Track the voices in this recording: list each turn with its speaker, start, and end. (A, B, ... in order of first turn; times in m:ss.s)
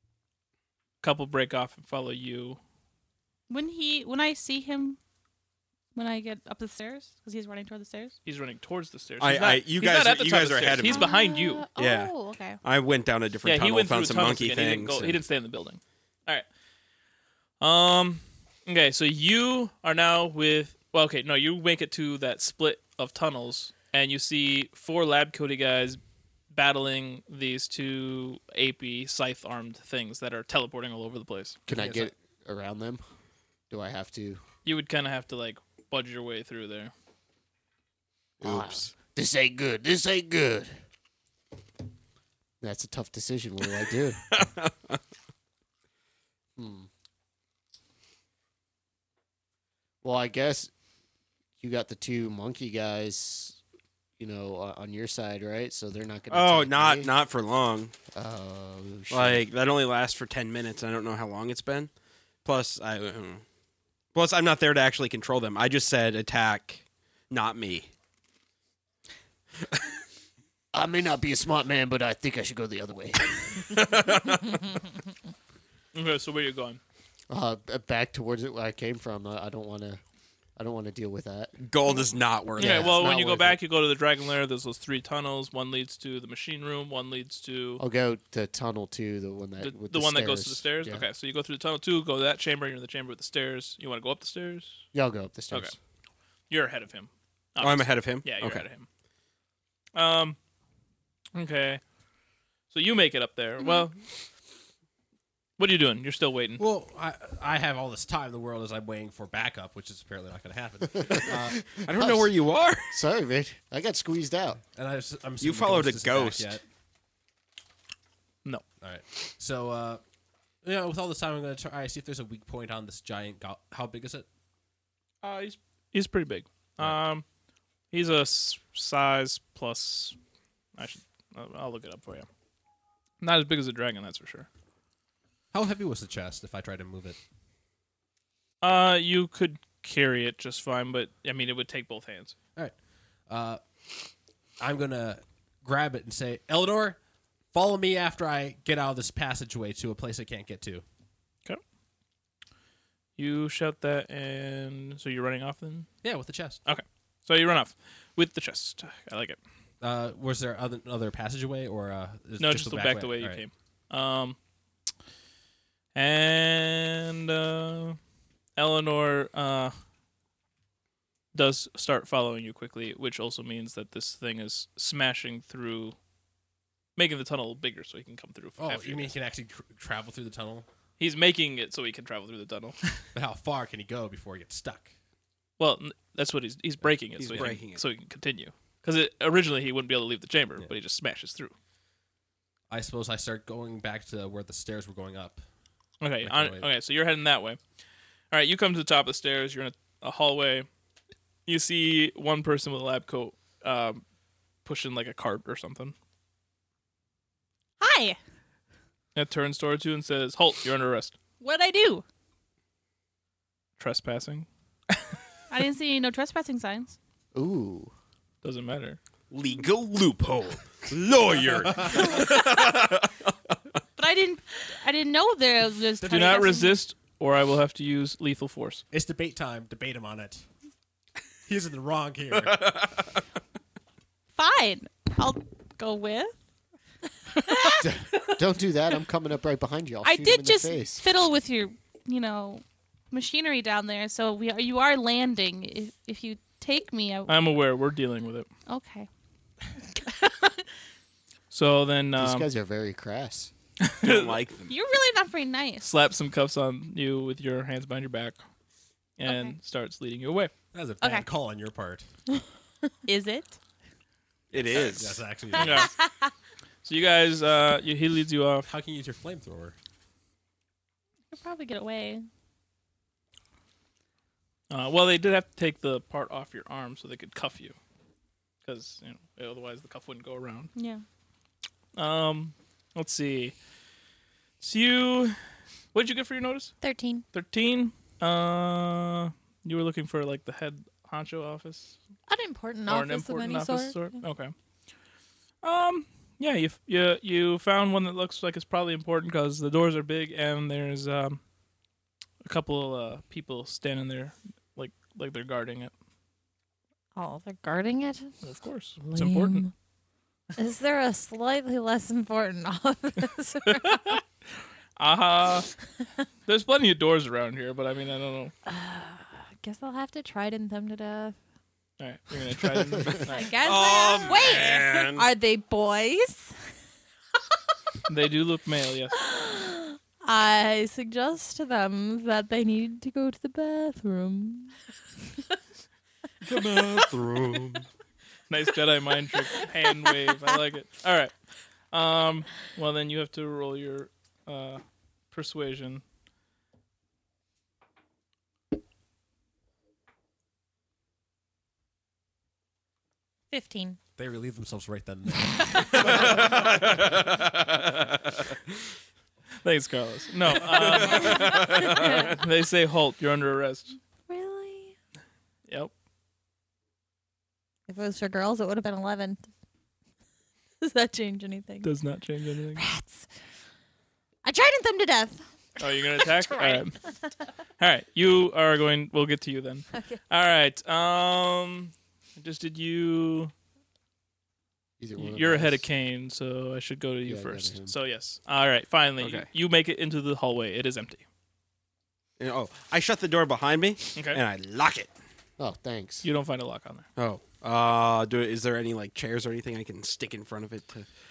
0:01.0-0:02.6 A
0:03.5-0:05.0 B
0:05.9-0:08.2 B
0:08.2-0:11.6 A
0:09.2-0:11.1 C
0:10.8-0:12.6 B
0:11.8-0:15.2 C
0:13.4-0:16.4 A
0:17.6-0:26.0 A
0:26.5-0:31.6 A
0:31.7-0:33.0 D
0:31.7-0:32.1 E
0:33.7-0:34.4 D
0:34.6-0:36.9 A
0:38.4-0:40.7 D
0:38.4-0:38.9 C
0:42.6-0:44.2 D
0:44.3-0:45.0 C
0:46.6-0:46.9 D
0:50.0-0:50.7 D
0:51.6-0:53.6 D
0:54.2-0:57.1 D
0:56.3-0:57.9 C
0:58.1-0:59.4 D
0:59.1-1:01.9 C
1:02.4-1:03.4 C
1:04.1-1:07.9 C
1:10.7-1:13.8 D
1:13.6-1:14.7 C
1:15.9-1:16.8 A
1:17.3-1:20.0 D
1:20.6-1:21.6 D
1:21.6-1:23.1 C
1:22.5-1:23.6 D
1:22.6-1:27.8 A
1:27.8-1:31.0 D
1:29.6-1:34.8 A
1:34.9-1:35.7 D
1:36.5-1:38.9 A
1:37.6-1:38.6 C
1:39.9-1:40.4 A
1:41.3-1:41.8 A
1:42.7-1:44.0 A
1:43.6-1:43.9 B
1:45.6-1:46.6 A
1:46.6-1:51.7 E
1:51.0-1:52.3 D
1:51.8-1:52.9 C
1:52.9-1:54.6 D
1:54.7-1:56.6 E
1:55.4-1:56.6 C
1:58.8-2:00.0 E
2:00.6-2:04.2 E
2:05.2-2:07.2 A
2:07.9-2:10.2 A
2:10.8-2:12.3 A
2:13.2-2:14.5 A
2:15.5-2:17.2 E
2:18.6-2:22.3 A
2:23.3-2:23.6 E
2:24.6-2:27.0 E
2:27.5-2:30.8 E
2:33.2-2:35.9 A
2:36.0-2:36.6 E
2:36.6-2:39.4 A
2:39.8-2:43.4 E
2:42.4-2:44.4 A
2:45.9-2:48.0 A
2:48.6-2:49.8 A
2:51.3-2:56.0 A
2:57.0-2:59.2 A
2:58.6-3:00.6 E
3:01.0-3:03.0 A
3:03.1-3:04.9 E
3:05.6-3:11.5 A
3:07.2-3:07.8 C
3:12.7-3:15.4 E
3:16.0-3:17.6 A
3:16.2-3:16.7 E
3:18.3-3:20.7 A
3:21.4-3:24.0 A
3:24.6-3:25.9 A
3:27.8-3:28.2 B
3:29.1-3:31.2 A
3:31.4-3:32.0 B
3:33.8-3:34.5 A
3:35.5-3:37.0 B
3:37.3-3:37.9 D
3:38.4-3:39.0 A
3:39.3-3:43.6 C
3:44.0-3:46.8 B
3:46.0-3:48.8 A
3:48.9-3:50.4 E
3:51.4-3:52.7 E
3:52.4-3:53.1 C
3:54.3-3:56.4 B
3:57.4-3:57.8 B
3:57.8-4:01.0 D
4:00.0-4:07.4 B
4:07.3-4:08.5 A
4:08.7-4:09.1 B
4:10.0-4:10.6 B
4:11.5-4:12.5 A
4:12.2-4:13.5 D
4:13.8-4:14.4 A
4:14.0-4:14.8 C
4:14.7-4:15.9 B
4:15.8-4:18.4 A
4:19.2-4:20.5 A
4:19.2-4:19.6 B
4:20.7-4:22.0 E
4:21.0-4:21.3 B
4:23.0-4:23.6 B
4:24.5-4:25.2 C
4:24.7-4:25.9 E
4:25.5-4:26.3 B
4:25.6-4:25.9 A
4:26.8-4:28.7 A
4:28.6-4:29.7 E
4:31.3-4:32.3 B
4:34.7-4:37.8 A
4:38.6-4:40.7 A
4:40.7-4:41.0 B
4:42.0-4:43.6 A
4:44.6-4:45.4 A
4:45.9-4:46.7 A
4:46.8-4:47.2 F
4:47.3-4:52.0 A
4:52.3-4:54.2 F
4:52.8-4:54.5 A
4:55.6-5:01.4 A
5:02.4-5:05.9 A
5:07.1-5:08.3 F
5:08.4-5:09.7 A
5:09.0-5:09.7 F
5:10.6-5:14.2 F
5:13.6-5:14.2 A
5:15.0-5:15.7 A
5:16.4-5:18.5 A
5:18.6-5:21.4 F
5:22.0-5:23.6 A
5:23.1-5:26.6 F
5:23.6-5:25.3 C
5:28.1-5:29.2 A
5:29.2-5:34.8 F
5:36.4-5:37.9 C
5:38.5-5:41.3 A
5:41.9-5:46.0 A
5:53.5-5:54.0 F
5:54.2-5:57.2 E
5:56.0-5:58.0 C
5:59.6-6:04.0 A
6:00.6-6:02.3 C
6:01.1-6:02.3 F
6:04.3-6:04.9 F
6:07.9-6:09.5 F
6:10.8-6:11.9 F
6:11.8-6:12.8 A
6:12.8-6:13.2 F
6:14.4-6:15.4 F
6:15.8-6:17.0 A
6:16.2-6:17.2 F
6:17.8-6:23.5 A
6:19.9-6:20.2 F
6:25.0-6:25.8 D
6:25.2-6:31.2 A
6:27.2-6:27.9 D
6:29.2-6:29.5 C
6:32.4-6:35.1 C
6:34.2-6:34.4 A
6:35.6-6:36.3 D
6:36.2-6:37.1 A
6:37.2-6:41.1 C